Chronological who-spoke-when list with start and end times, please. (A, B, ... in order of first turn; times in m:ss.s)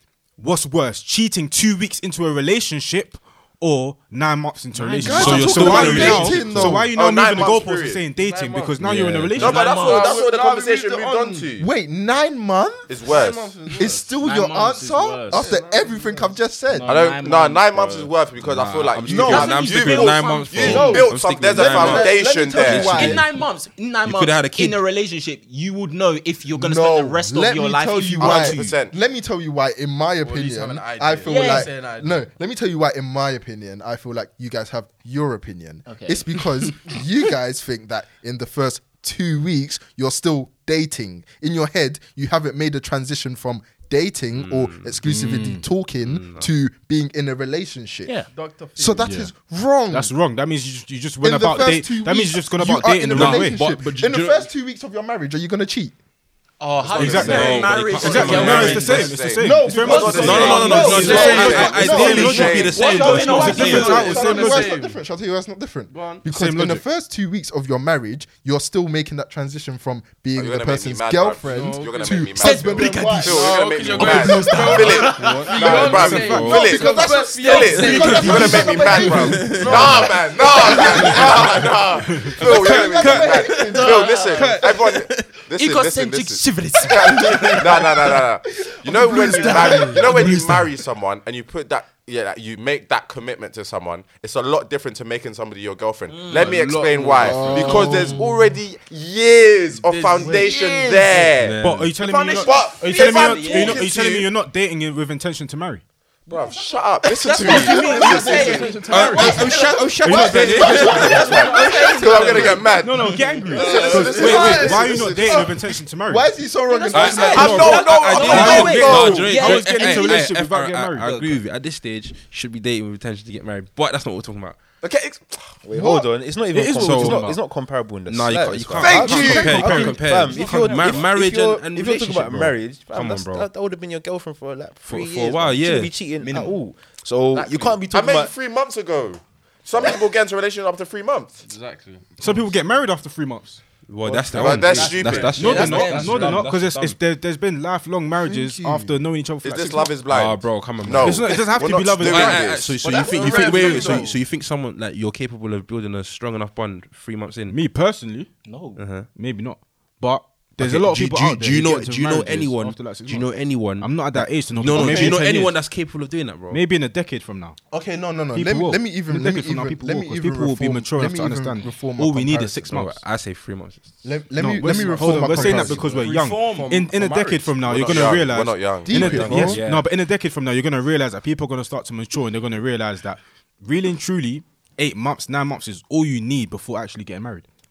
0:00.4-0:09.6 A
0:04.7-0:06.2 B
0:05.0-0:06.9 C
0:05.1-0:06.8 D
0:06.9-0:08.0 E
0:08.1-0:08.8 F
0:08.8-0:09.5 D
0:09.4-0:10.1 B
0:09.4-0:11.7 E
0:09.5-0:11.5 F
0:11.6-0:12.9 C
0:12.9-0:13.6 E
0:13.0-0:14.1 F
0:13.8-0:16.9 C
0:14.2-0:15.5 B
0:15.3-0:16.4 F
0:16.7-0:18.1 B
0:16.8-0:23.1 E
0:18.4-0:23.2 D
0:19.0-0:19.6 C
0:19.3-0:21.0 B
0:20.6-0:23.2 C
0:22.6-0:28.7 B
0:24.0-0:24.8 D
0:26.5-0:48.1 C
0:28.2-0:28.9 E
0:30.2-0:32.3 F
0:31.2-0:31.7 B
0:35.8-0:36.4 B
0:44.3-0:45.0 D
0:45.0-0:45.6 A
0:46.0-0:46.5 D
0:48.3-0:49.2 F
0:48.8-0:50.1 C
0:49.0-0:49.3 A
0:49.9-0:53.7 A
0:51.2-0:55.9 C
0:53.1-0:54.5 D
0:56.6-0:59.1 B
0:56.9-1:04.7 A
0:57.0-1:03.1 E
0:57.0-0:59.1 D
0:59.4-1:15.8 C
0:59.8-1:04.4 B
1:00.1-1:04.0 D
1:00.7-1:01.0 G
1:00.8-1:01.8 F
1:03.6-1:05.0 F
1:05.9-1:06.2 F
1:06.3-1:06.8 A
1:10.4-1:44.3 E
1:11.4-1:12.4 F
1:12.4-1:15.1 B
1:13.1-1:21.3 F
1:15.4-1:16.7 D
1:15.8-1:16.4 A
1:16.5-1:21.4 C
1:17.9-1:21.4 D
1:22.0-1:22.4 A
1:22.2-1:24.2 C
1:22.3-1:25.3 D
1:23.6-1:24.6 B
1:25.6-1:27.9 B
1:28.7-1:30.6 C
1:29.2-1:30.3 B
1:30.2-1:30.6 A
1:36.1-1:36.6 B
1:36.3-1:38.2 F
1:37.2-1:38.5 C
1:37.7-1:38.0 B
1:39.7-1:40.5 F
1:40.2-1:41.3 B
1:41.4-1:41.9 D
1:41.6-1:45.8 A
1:42.6-1:43.9 B
1:46.3-1:48.8 E
1:47.1-1:53.2 B
1:47.5-1:49.8 F
1:48.0-1:49.4 C
1:48.9-1:51.4 D
1:50.0-1:51.0 A
1:50.4-1:54.6 E
1:50.5-1:52.6 F
1:52.8-1:56.3 A
1:53.2-1:55.5 F
1:53.6-1:57.8 C
1:56.7-2:00.3 B
1:56.9-2:04.6 D
1:57.2-1:59.4 E
1:58.2-2:01.3 A
2:04.8-2:05.6 E
2:05.6-2:18.3 G
2:05.7-2:06.1 C
2:06.5-2:07.4 A
2:06.8-2:07.3 D
2:08.1-2:13.5 D
2:08.8-2:09.6 E
2:08.8-2:10.0 A
2:10.3-2:10.9 B
2:14.8-2:15.9 D
2:16.2-2:16.6 B
2:17.3-2:17.8 B
2:17.9-2:21.4 E
2:21.4-2:22.5 F
2:22.2-2:23.6 A
2:23.9-2:26.9 D
2:24.0-2:26.6 F
2:24.3-2:24.8 G
2:24.4-2:25.4 E
2:25.2-2:26.9 B
2:25.3-2:29.9 A
2:28.2-2:28.9 C
2:29.4-2:33.8 E
2:30.1-2:37.6 D
2:30.9-2:32.6 A
2:32.8-2:34.2 F
2:37.5-2:38.3 A
2:38.4-2:38.8 B
2:38.8-2:39.1 D
2:39.1-2:45.6 A
2:40.6-2:46.6 D
2:44.7-2:45.3 F
2:46.5-2:47.6 A
2:47.7-2:48.2 F
2:47.7-2:52.7 C
2:48.3-2:53.0 A
2:52.7-2:53.9 D
2:54.0-2:55.9 C
2:54.4-3:07.4 A
2:54.9-2:58.2 F
2:56.1-2:56.6 B
2:57.7-2:59.6 E
2:58.8-2:59.6 C
2:59.0-2:59.9 D